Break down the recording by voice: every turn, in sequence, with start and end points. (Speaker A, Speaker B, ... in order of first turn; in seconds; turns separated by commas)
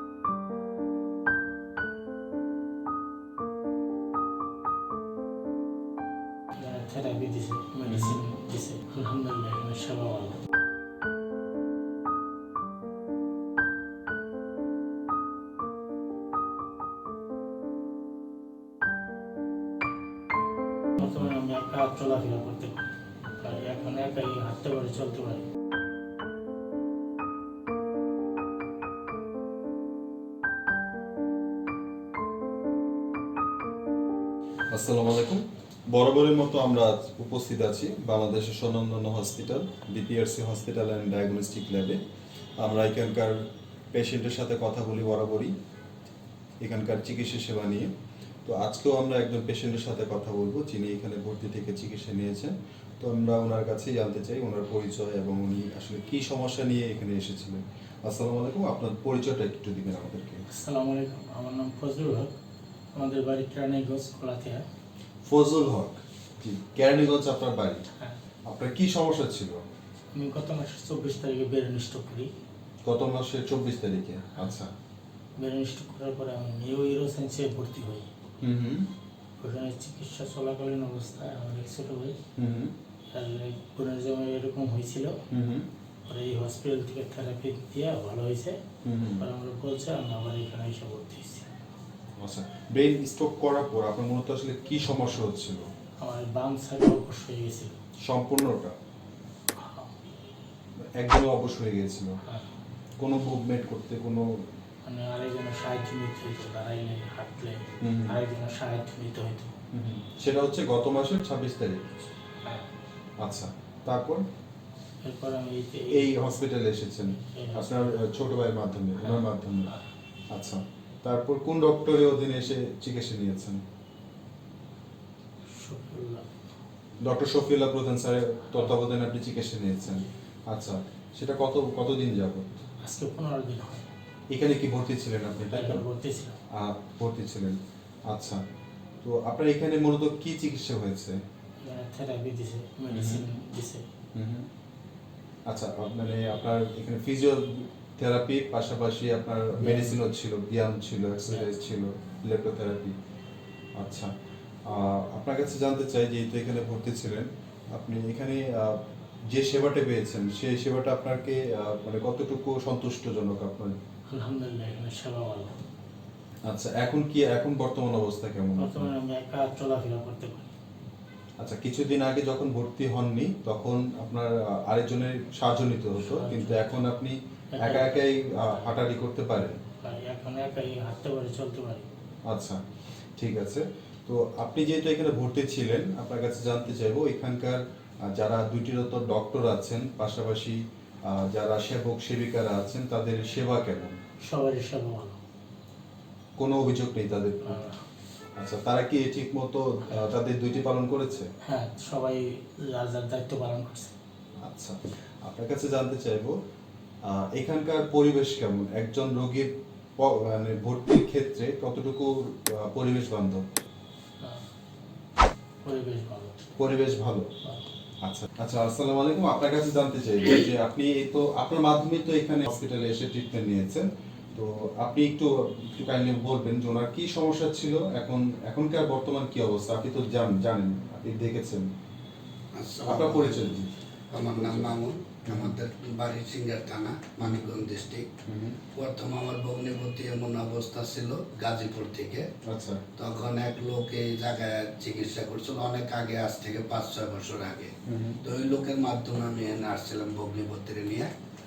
Speaker A: 6.5-10.4, Speaker B: 7.8-8.2, Speaker A: 21.0-22.9, Speaker A: 23.4-25.5, Speaker B: 34.7-42.0, Speaker B: 42.6-43.3, Speaker B: 43.9-45.5, Speaker B: 46.6-47.9, Speaker B: 48.4-60.4, Speaker A: 60.5-62.4, Speaker A: 62.9-64.6, Speaker B: 65.2-67.8, Speaker B: 68.5-69.6, Speaker A: 70.1-72.3, Speaker B: 72.8-74.7, Speaker A: 75.4-78.1, Speaker B: 78.4-78.9, Speaker A: 79.4-82.2, Speaker B: 82.4-82.7, Speaker A: 83.1-85.1, Speaker B: 85.3-85.7, Speaker A: 86.1-88.6, Speaker B: 88.8-89.2, Speaker A: 89.2-91.5, Speaker B: 92.2-95.6, Speaker A: 96.0-97.7, Speaker B: 98.1-98.7, Speaker A: 99.5-100.0, Speaker B: 101.0-102.1, Speaker B: 103.0-104.2, Speaker A: 104.8-109.5, Speaker B: 107.8-108.2, Speaker B: 109.7-111.8, Speaker A: 112.4-112.7, Speaker B: 113.2-114.2, Speaker A: 115.0-116.1, Speaker B: 115.9-119.7, Speaker A: 117.3-118.0, Speaker A: 119.0-119.8, Speaker B: 120.3-123.6, Speaker A: 125.5-126.3, Speaker B: 127.0-132.6, Speaker A: 132.8-133.9, Speaker B: 134.3-135.8, Speaker A: 135.5-136.4, Speaker B: 136.5-137.6, Speaker B: 138.1-138.4, Speaker B: 139.0-141.2, Speaker A: 141.6-143.8, Speaker B: 142.9-143.2, Speaker B: 144.1-144.5, Speaker B: 145.5-152.9, Speaker A: 149.6-149.9, Speaker B: 153.8-154.1, Speaker B: 154.7-158.8, Speaker B: 159.3-163.7, Speaker A: 164.1-165.6, Speaker B: 166.5-168.9, Speaker A: 168.6-170.5, Speaker B: 171.4-179.6, Speaker A: 176.0-176.8, Speaker A: 177.5-178.0, Speaker A: 179.8-181.9, Speaker B: 182.3-182.6, Speaker B: 183.2-193.9, Speaker A: 194.2-195.2, Speaker B: 196.4-197.6, Speaker A: 197.4-197.8, Speaker B: 198.4-201.3, Speaker A: 201.4-203.9, Speaker B: 204.4-206.3, Speaker B: 207.1-213.4, Speaker A: 214.2-214.5, Speaker A: 215.6-216.4, Speaker B: 216.6-217.3, Speaker B: 218.0-231.7, Speaker C: 232.6-233.6, Speaker B: 232.9-233.7, Speaker C: 234.1-238.1, Speaker B: 234.3-234.8, Speaker B: 235.3-235.5, Speaker B: 238.3-238.6, Speaker C: 238.7-242.3, Speaker B: 242.4-242.8, Speaker C: 243.0-247.7, Speaker B: 247.9-248.2, Speaker C: 248.2-251.1